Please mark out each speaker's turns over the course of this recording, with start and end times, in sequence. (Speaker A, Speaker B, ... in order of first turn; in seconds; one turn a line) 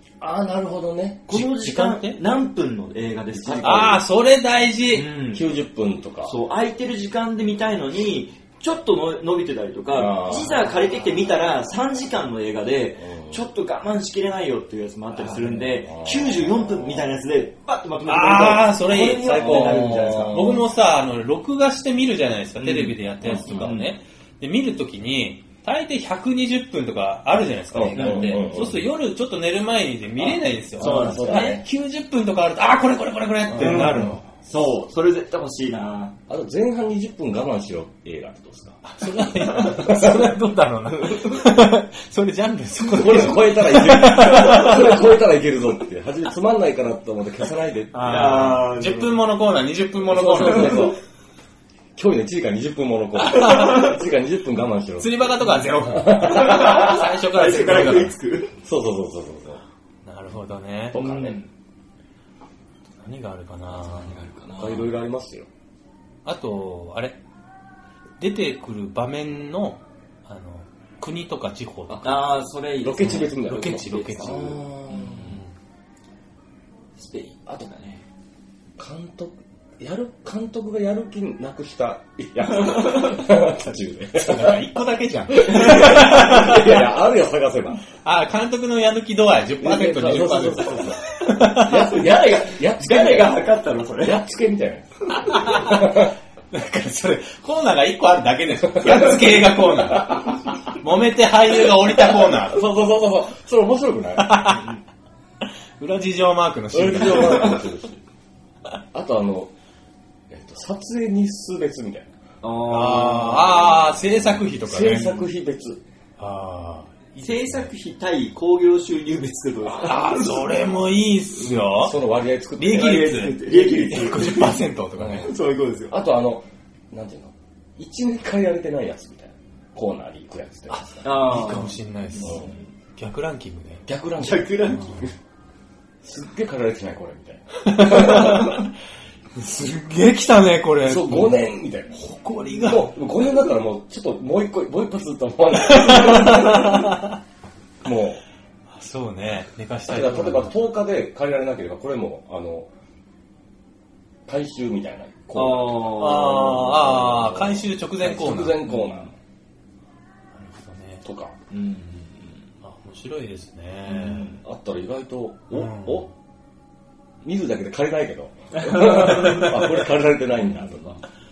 Speaker A: 0.2-1.4
Speaker B: 1.3-4.0
Speaker C: 1.3-2.2
Speaker A: 3.3-4.0
Speaker C: 3.6-5.1
Speaker B: 4.9-5.5
Speaker A: 5.2-6.4
Speaker B: 6.2-20.6
Speaker A: 9.9-10.6
Speaker A: 13.0-13.4
Speaker A: 15.2-17.1
Speaker C: 18.0-34.2
Speaker A: 19.3-20.6
Speaker B: 22.6-24.0
Speaker A: 23.2-23.8
Speaker A: 27.7-28.8
Speaker B: 27.9-28.6
Speaker B: 30.2-31.6
Speaker A: 30.8-31.7
Speaker B: 33.5-36.2
Speaker A: 33.6-34.1
Speaker A: 36.3-40.4
Speaker C: 38.8-45.1
Speaker A: 42.8-48.6
Speaker B: 47.9-49.2
Speaker C: 48.0-51.0
Speaker A: 50.0-51.0
Speaker A: 52.0-56.7
Speaker C: 53.2-53.9
Speaker C: 55.0-58.1
Speaker B: 56.2-58.6
Speaker A: 58.6-59.6
Speaker C: 60.0-61.0
Speaker A: 60.9-61.4
Speaker B: 60.9-61.5
Speaker C: 63.0-64.2
Speaker B: 63.7-64.9
Speaker A: 64.5-65.5
Speaker C: 66.2-67.2
Speaker C: 68.2-72.2
Speaker A: 71.9-75.4
Speaker B: 72.0-75.4
Speaker C: 73.0-74.5
Speaker B: 77.0-78.0
Speaker A: 78.8-84.6
Speaker B: 82.7-83.0
Speaker C: 84.1-86.8
Speaker B: 85.5-86.7
Speaker A: 85.5-87.9
Speaker C: 88.0-91.8
Speaker A: 89.6-96.2
Speaker B: 91.5-94.2
Speaker C: 95.3-102.7
Speaker A: 101.8-104.3
Speaker C: 104.2-104.8
Speaker C: 105.4-107.6
Speaker A: 106.7-108.0
Speaker B: 107.2-107.6
Speaker A: 108.9-109.5
Speaker A: 110.3-112.1
Speaker B: 112.4-113.9
Speaker C: 112.7-115.3
Speaker A: 114.1-115.8
Speaker C: 116.2-117.7
Speaker B: 117.2-120.8
Speaker C: 119.6-122.0
Speaker A: 121.7-124.2
Speaker C: 122.6-125.3
Speaker B: 122.6-124.6
Speaker A: 125.0-125.3
Speaker B: 125.2-126.0
Speaker A: 125.9-131.1
Speaker C: 130.7-133.8
Speaker B: 131.0-132.7
Speaker A: 132.2-132.5
Speaker A: 133.8-135.1
Speaker B: 134.2-135.1
Speaker A: 136.0-138.5
Speaker C: 137.6-138.7
Speaker C: 139.3-142.9
Speaker A: 140.8-146.9
Speaker C: 145.6-147.1
Speaker A: 147.8-148.2
Speaker C: 148.7-150.5
Speaker A: 149.9-152.7
Speaker A: 154.2-159.1
Speaker B: 155.3-156.7
Speaker C: 155.9-158.6
Speaker B: 158.6-159.1
Speaker C: 160.3-161.0
Speaker A: 161.0-161.3
Speaker B: 161.5-162.5
Speaker C: 162.6-164.3
Speaker B: 163.8-164.4
Speaker A: 164.4-166.1
Speaker C: 165.5-166.1
Speaker A: 167.2-171.0
Speaker B: 168.6-169.4
Speaker B: 170.5-171.0